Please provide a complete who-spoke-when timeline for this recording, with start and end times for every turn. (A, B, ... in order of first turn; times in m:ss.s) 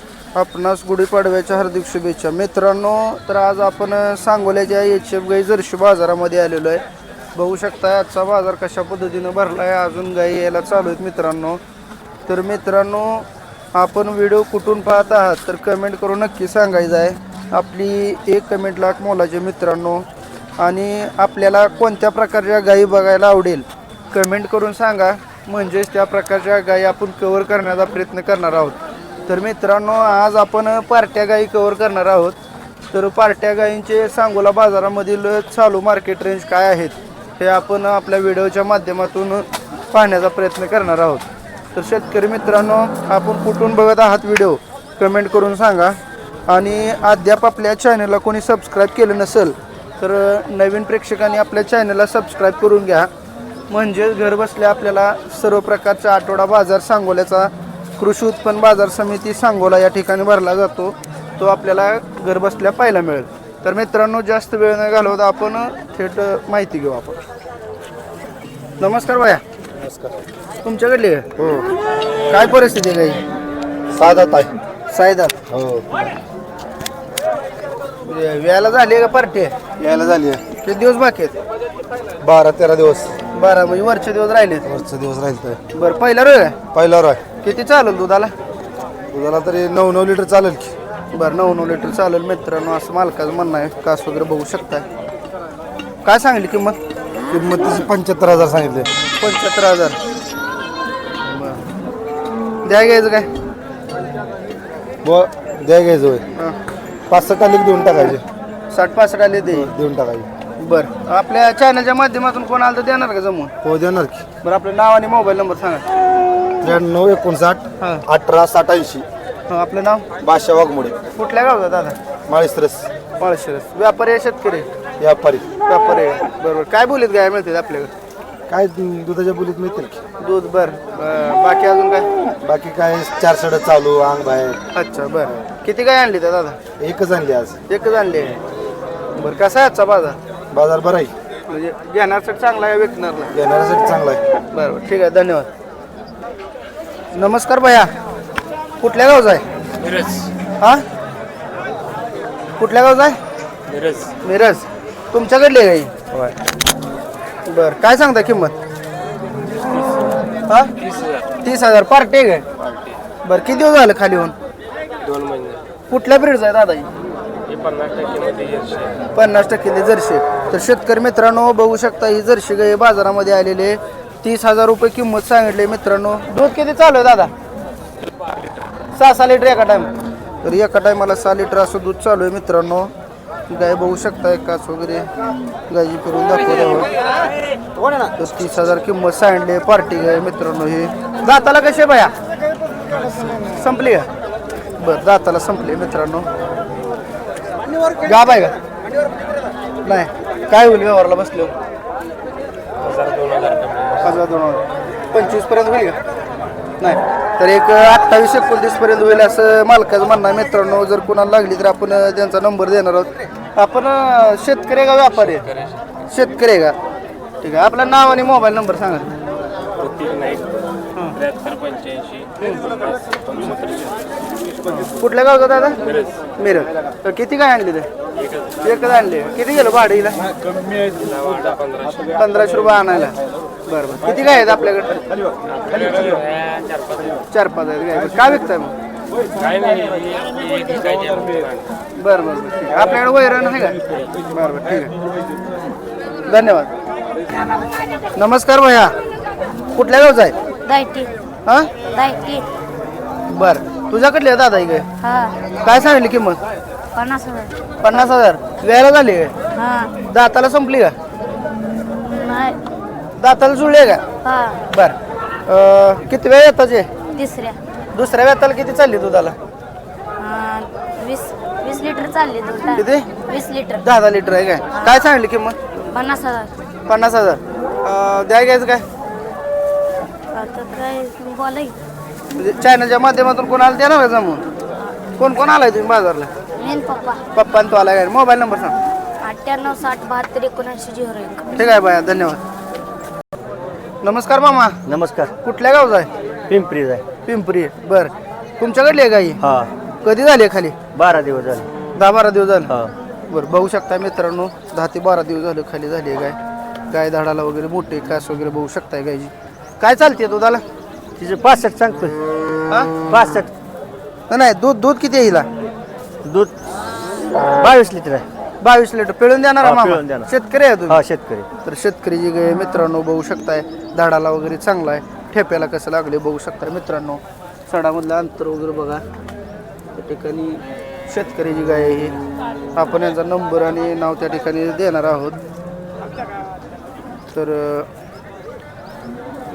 0:00.3-0:06.8 A
0:07.3-0:11.6 A
0:12.3-0:20.0 A
0:20.6-0:32.4 A
0:32.9-0:46.0 A
0:46.5-0:53.1 A
0:53.7-1:07.2 A
1:08.8-1:09.4 A
1:09.8-1:10.1 B
1:10.6-1:11.3 A
1:11.4-1:11.7 B
1:12.3-1:13.2 A
1:13.9-1:14.5 B
1:14.9-1:15.4 A
1:15.5-1:16.1 B
1:18.0-1:19.6 A
1:19.8-1:20.4 B
1:20.6-1:21.4 A
1:22.2-1:23.2 B
1:23.3-1:24.6 A
1:24.6-1:25.6 B
1:25.7-1:26.6 A
1:26.7-1:27.2 B
1:27.4-1:28.3 A
1:29.1-1:30.7 B
1:31.1-1:34.8 A
1:36.0-1:36.8 A
1:37.3-1:38.9 B
1:39.2-1:40.0 A
1:41.2-1:41.6 A
1:42.6-1:43.3 A
1:45.0-1:46.2 B
1:47.1-1:48.2 B
1:48.7-1:49.7 A
1:49.5-1:50.3 B
1:50.6-1:53.5 A
1:53.6-1:54.2 B
1:54.4-1:55.8 A
1:56.6-1:59.0 B
1:57.8-1:58.0 A
1:59.5-2:00.1 A
2:00.2-2:01.0 B
2:01.1-2:02.0 A
2:02.3-2:02.9 B
2:03.2-2:04.7 A
2:05.0-2:05.5 B
2:05.6-2:07.9 A
2:08.5-2:10.0 B
2:10.2-2:12.1 A
2:12.4-2:14.6 B
2:14.7-2:16.6 A
2:16.8-2:17.6 B
2:17.7-2:18.4 A
2:19.2-2:20.2 A
2:20.5-2:21.1 B
2:21.5-2:23.3 A
2:23.3-2:24.2 B
2:24.5-2:25.5 A
2:27.1-2:27.9 A
2:28.8-2:29.4 A
2:29.8-2:30.3 C
2:32.6-2:33.2 A
2:33.7-2:34.1 C
2:34.2-2:36.3 A
2:37.5-2:38.6 A
2:40.5-2:40.8 A
2:41.4-2:42.4 A
2:43.2-2:44.3 A
2:45.0-2:45.6 C
2:45.9-2:46.9 A
2:47.5-2:48.9 C
2:49.1-2:57.3 A
2:59.0-2:59.9 A
3:00.4-3:02.9 A
3:03.5-3:05.1 A
3:05.7-3:06.9 A
3:08.1-3:12.1 A
3:13.3-3:14.1 A
3:14.8-3:16.3 A
3:18.0-3:18.5 A
3:19.8-3:21.5 A
3:22.9-3:23.9 C
3:24.0-3:26.0 A
3:26.8-3:35.5 A
3:36.1-3:36.8 A
3:37.4-3:39.1 A
3:39.8-3:40.4 C
3:40.9-3:41.2 A
3:41.2-3:43.9 C
3:42.4-3:42.7 A
3:44.6-3:45.8 A
3:46.4-3:47.9 A
3:48.6-3:50.2 A
3:50.8-3:52.0 C
3:52.1-3:53.2 A
3:53.7-3:55.0 A
3:55.5-3:57.1 C
3:57.3-3:58.7 A
3:59.4-4:01.6 C
4:02.0-4:04.9 A
4:06.2-4:06.7 A
4:08.2-4:08.9 A
4:09.7-4:10.3 A
4:10.6-4:11.1 D
4:11.4-4:11.7 A
4:11.8-4:12.4 D
4:13.3-4:14.9 A
4:15.0-4:15.4 D
4:15.6-4:16.4 A
4:16.9-4:17.5 D
4:17.8-4:19.3 A
4:19.6-4:20.0 D
4:20.1-4:20.9 A
4:21.9-4:22.6 D
4:23.2-4:24.0 A
4:24.2-4:24.6 D
4:24.7-4:25.0 A
4:25.5-4:26.9 A
4:27.1-4:27.6 D
4:27.9-4:29.3 A
4:30.2-4:33.8 D
4:32.8-4:33.1 A
4:33.8-4:35.6 A
4:35.9-4:36.5 D
4:36.9-4:38.8 A
4:40.3-4:41.7 D
4:42.4-4:44.4 A
4:45.2-4:46.3 A
4:46.6-4:47.2 D
4:47.3-4:48.8 A
4:49.2-4:51.5 D
4:51.6-4:52.4 A
4:54.0-4:54.8 A
4:54.8-4:55.3 E
4:55.4-4:56.1 A
4:56.5-4:57.0 E
4:57.2-4:59.4 A
4:59.4-4:59.7 E
5:00.0-5:00.8 A
5:00.9-5:01.7 E
5:02.0-5:02.7 A
5:03.3-5:06.4 A
5:06.9-5:10.6 A
5:11.2-5:12.2 E
5:13.0-5:13.5 E
5:14.3-5:15.5 A
5:16.2-5:18.2 E
5:18.6-5:21.0 A
5:19.6-5:20.3 E
5:20.9-5:21.5 E
5:21.6-5:29.0 A
5:29.9-5:32.2 A
5:32.8-5:35.4 A
5:37.3-5:37.9 A